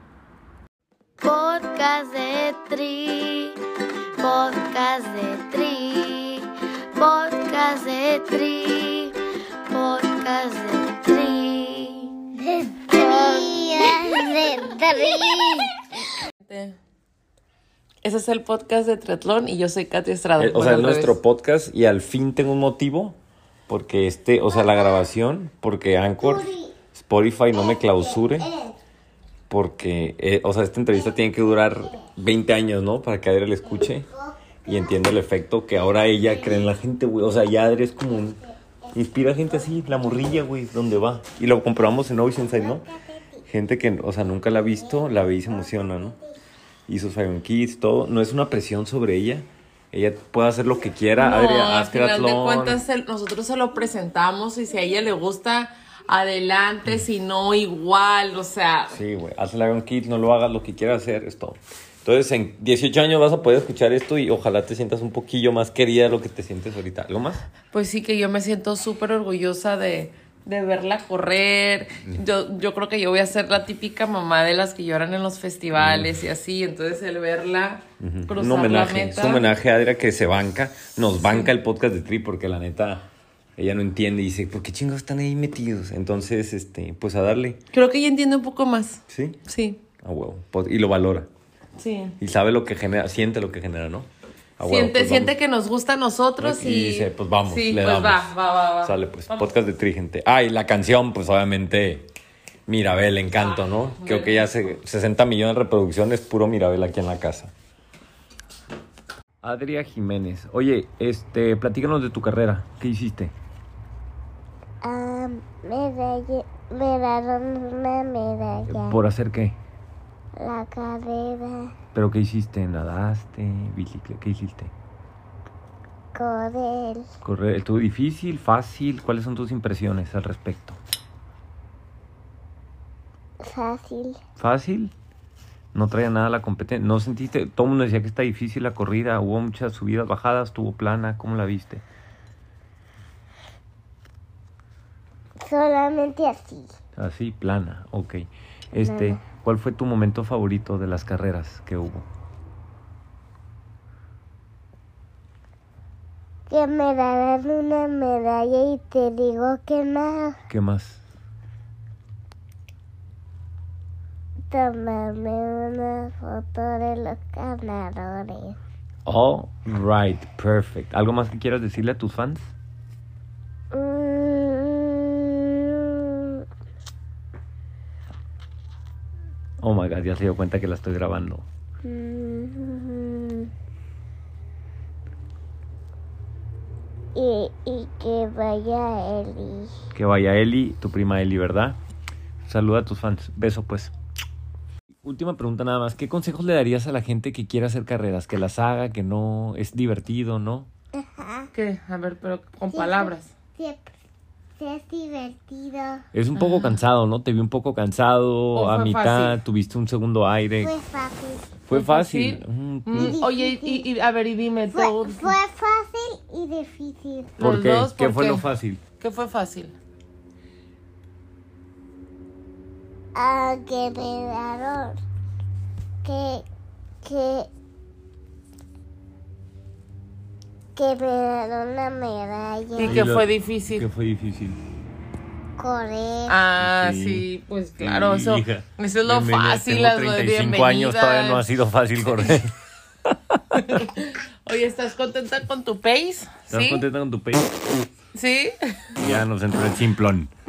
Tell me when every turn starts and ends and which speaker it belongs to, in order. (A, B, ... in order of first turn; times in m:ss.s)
0:01.2-0:03.6 A
0:04.2-0:09.2 A
0:09.7-0:12.2 A
0:12.5-0:15.6 B
0:12.9-0:15.6 A
0:16.4-0:16.8 C
0:18.0-0:21.2 C
0:20.4-0:23.2 D
0:23.7-0:28.5 D
0:24.5-0:25.0 B
0:26.2-0:26.8 B
0:27.5-0:28.8 B
0:29.5-0:34.1 D
0:34.0-0:35.0 B
0:34.6-0:38.4 D
0:36.3-0:36.7 B
0:38.9-0:42.8 D
0:42.5-0:43.4 B
0:43.4-0:46.2 D
0:44.9-0:46.2 B
0:46.9-0:52.8 D
0:51.2-0:59.0 C
0:58.9-1:07.4 D
1:07.7-1:19.5 C
1:15.8-1:16.2 D
1:18.0-1:23.0 D
1:21.2-1:21.5 C
1:23.6-1:27.6 D
1:27.7-1:29.8 C
1:29.1-1:29.4 D
1:30.0-1:31.3 D
1:31.8-1:32.2 C
1:32.2-1:34.1 D
1:34.6-1:35.3 D
1:34.6-1:39.5 C
1:36.4-1:38.3 D
1:38.8-1:42.1 D
1:42.7-1:47.5 D
1:43.4-1:44.5 C
1:49.4-1:53.3 D
1:54.8-1:59.0 B
1:58.7-1:59.6 D
2:00.4-2:01.7 B
2:01.9-2:04.7 D
2:06.2-2:07.1 B
2:07.2-2:10.8 D
2:13.4-2:14.2 B
2:14.4-2:14.9 D
2:15.7-2:21.8 D
2:25.4-2:26.7 B
2:27.0-2:32.1 D
2:28.8-2:29.2 B
2:36.5-2:40.4 B
2:40.5-2:41.0 D
2:44.5-2:48.6 B
2:49.1-2:52.5 D
2:53.7-2:56.4 B
2:59.6-3:01.5 D
3:01.8-3:03.5 B
3:07.2-3:09.7 B
3:09.9-3:11.8 D
3:12.4-3:13.9 D
3:15.0-3:20.7 D
3:20.9-3:21.5 B
3:21.5-3:23.3 C
3:22.7-3:23.9 B
3:24.6-3:26.0 B
3:26.1-3:30.7 D
3:26.4-3:26.8 C
3:28.5-3:29.4 C
3:30.6-3:31.5 B
3:31.7-3:33.2 D
3:31.7-3:35.3 C
3:32.9-3:33.9 B
3:34.7-3:37.4 B
3:37.4-3:39.7 C
3:37.4-3:38.8 D
3:43.2-3:45.0 B
3:46.0-3:46.4 B
3:47.0-3:47.5 B
3:50.8-3:53.0 B
3:52.8-3:53.9 C
3:52.8-3:54.6 D
3:55.6-3:56.4 B
3:56.3-4:01.4 C
3:56.6-3:57.2 D
3:57.8-4:03.8 D
4:03.6-4:06.8 C
4:06.5-4:07.6 D
4:08.1-4:08.9 C
4:09.0-4:10.3 D